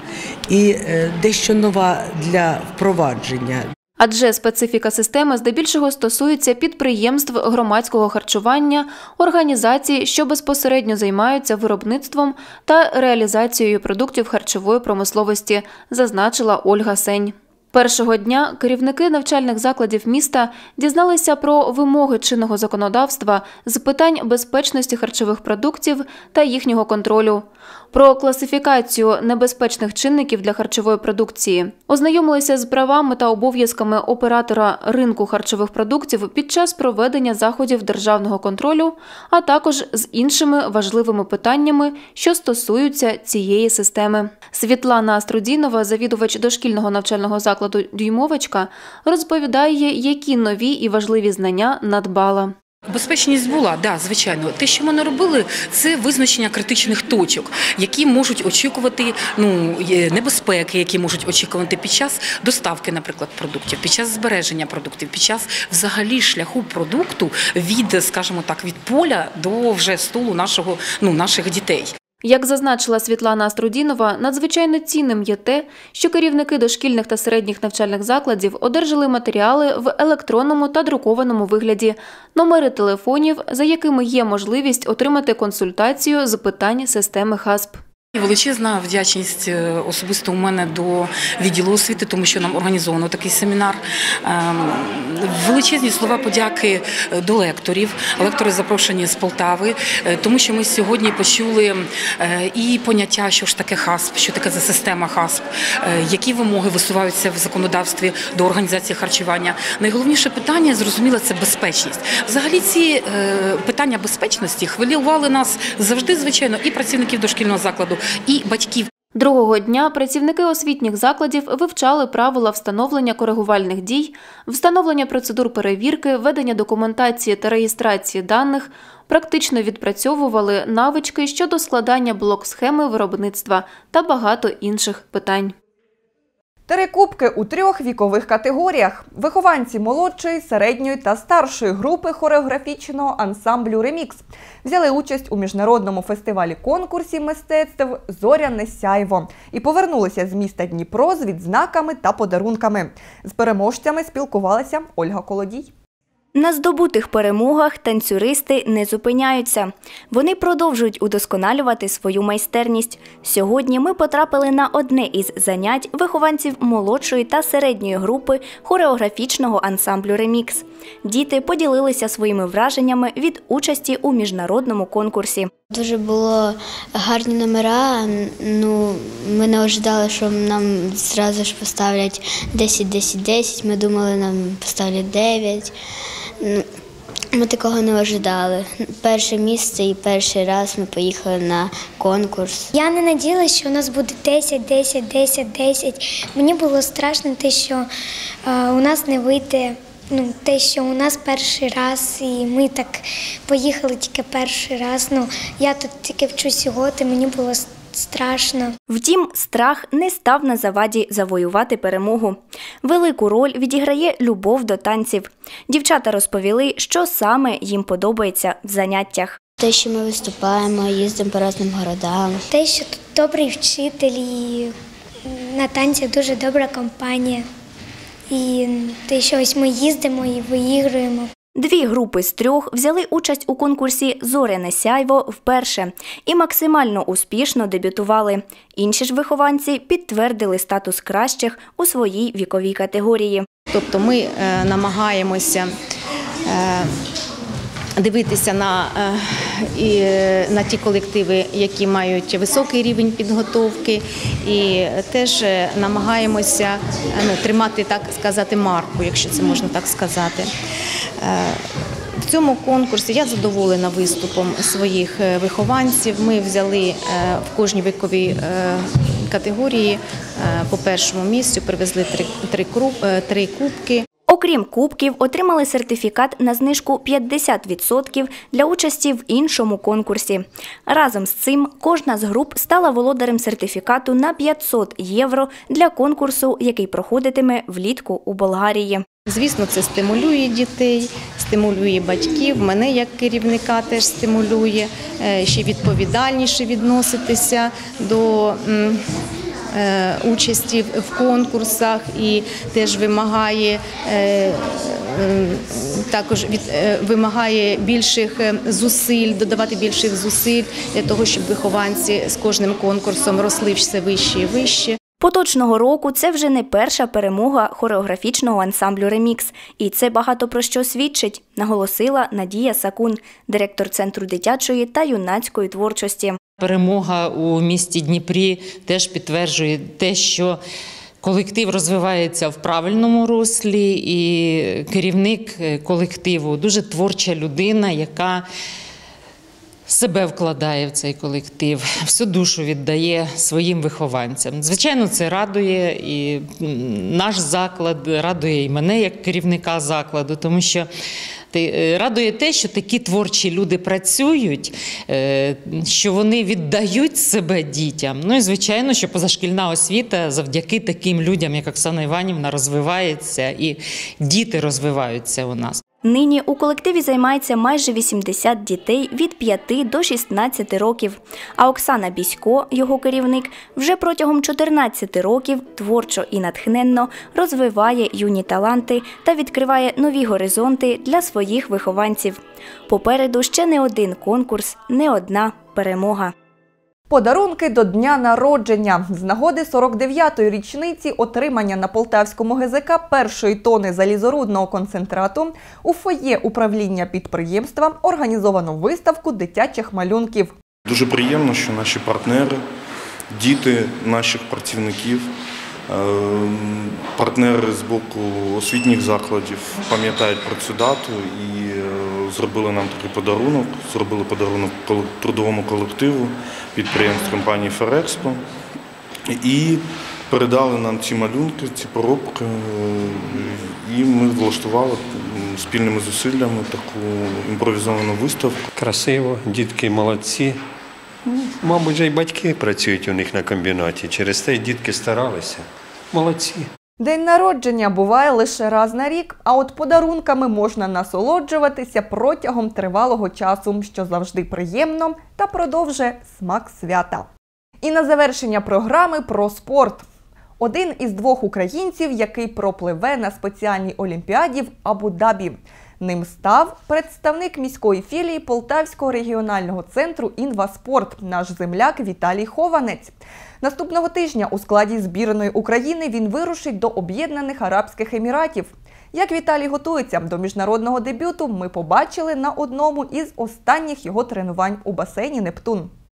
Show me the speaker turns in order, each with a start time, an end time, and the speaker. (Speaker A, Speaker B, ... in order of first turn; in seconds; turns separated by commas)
Speaker A: 0.5-3.7, Speaker B: 4.0-52.5, Speaker C: 52.9-72.0, Speaker B: 72.2-87.8, Speaker C: 88.2-118.9, Speaker B: 119.2-135.6, Speaker D: 136.7-155.7, Speaker E: 156.3-175.5, Speaker F: 175.7-185.7, Speaker F: 187.3-192.7, Speaker G: 192.7-197.8, Speaker G: 198.5-208.8, Speaker E: 208.9-219.4, Speaker F: 219.6-222.4, Speaker G: 222.5-224.7, Speaker G: 225.4-227.4, Speaker G: 228.3-231.3, Speaker E: 231.6-243.4, Speaker H: 243.7-245.7, Speaker H: 246.4-247.0, Speaker H: 248.0-260.5, Speaker H: 261.2-274.1, Speaker E: 274.3-289.0, Speaker H: 289.3-299.0, Speaker H: 299.7-315.0, Speaker E: 315.2-326.4, Speaker I: 326.6-330.6, Speaker I: 331.2-338.5, Speaker I: 339.9-350.9, Speaker I: 351.5-365.8, Speaker E: 366.0-386.3, Speaker D: 387.1-400.5, Speaker J: 400.9-402.6, Speaker J: 403.3-405.2, Speaker J: 405.9-418.4, Speaker J: 419.4-419.8, Speaker J: 420.3-428.6, Speaker K: 428.8-430.6, Speaker K: 431.6-436.6, Speaker D: 437.0-447.3, Speaker D: 447.8-450.0, Speaker D: 450.6-475.9